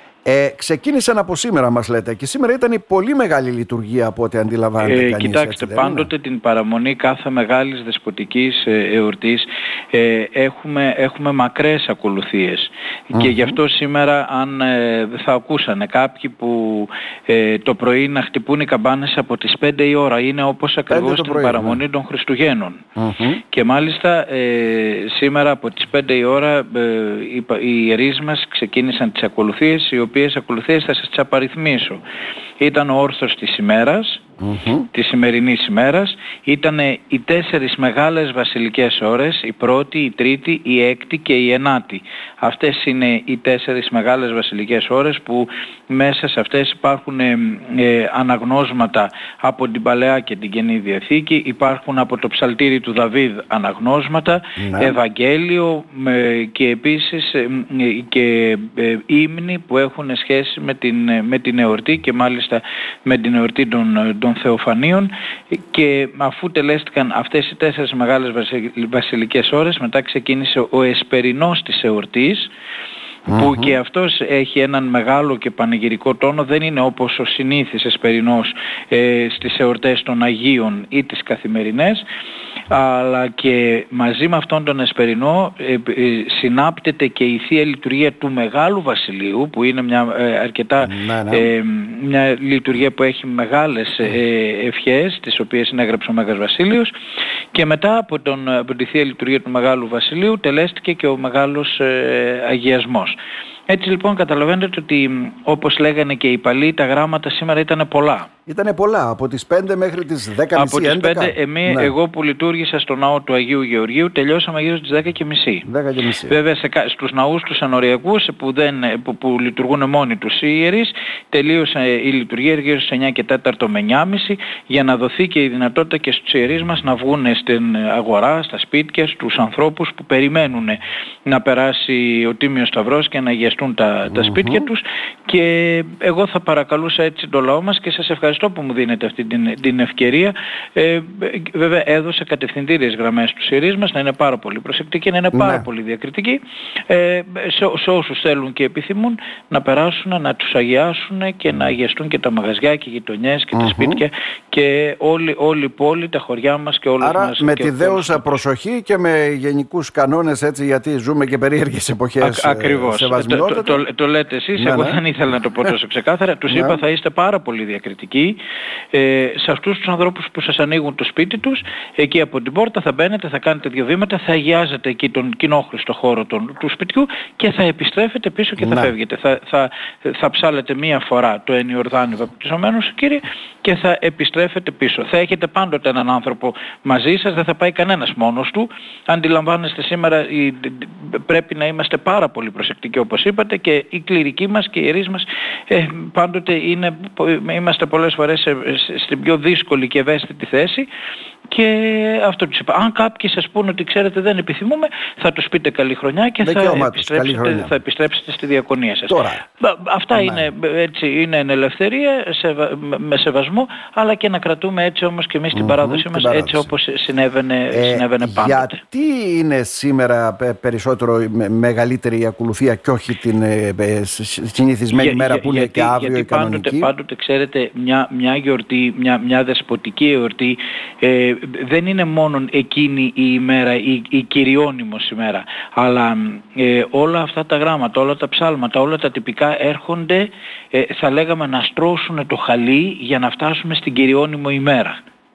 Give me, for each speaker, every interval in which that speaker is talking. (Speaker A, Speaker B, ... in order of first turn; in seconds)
Speaker A: 0.2-6.1, 13.1-13.6, 20.9-21.8, 23.0-23.4, 34.4-34.9, 54.6-55.0, 73.3-73.8, 90.8-91.5, 108.5-111.9, 115.6-116.4, 134.1-134.7, 145.3-145.7, 153.5-154.0, 157.0-163.8, 164.6-165.0, 166.5-166.8, 178.6-178.9, 206.4-207.8, 209.1-209.4, 210.1-210.5, 215.5-216.7, 217.7-226.9
Speaker B: 4.8-22.8, 23.4-32.0, 32.6-34.2, 34.9-72.5, 73.3-82.0, 82.7-96.9, 97.5-103.2, 103.7-108.3, 110.5-115.7, 116.3-158.4, 162.2-168.4, 168.9-200.9, 201.5-218.8, 224.9-245.0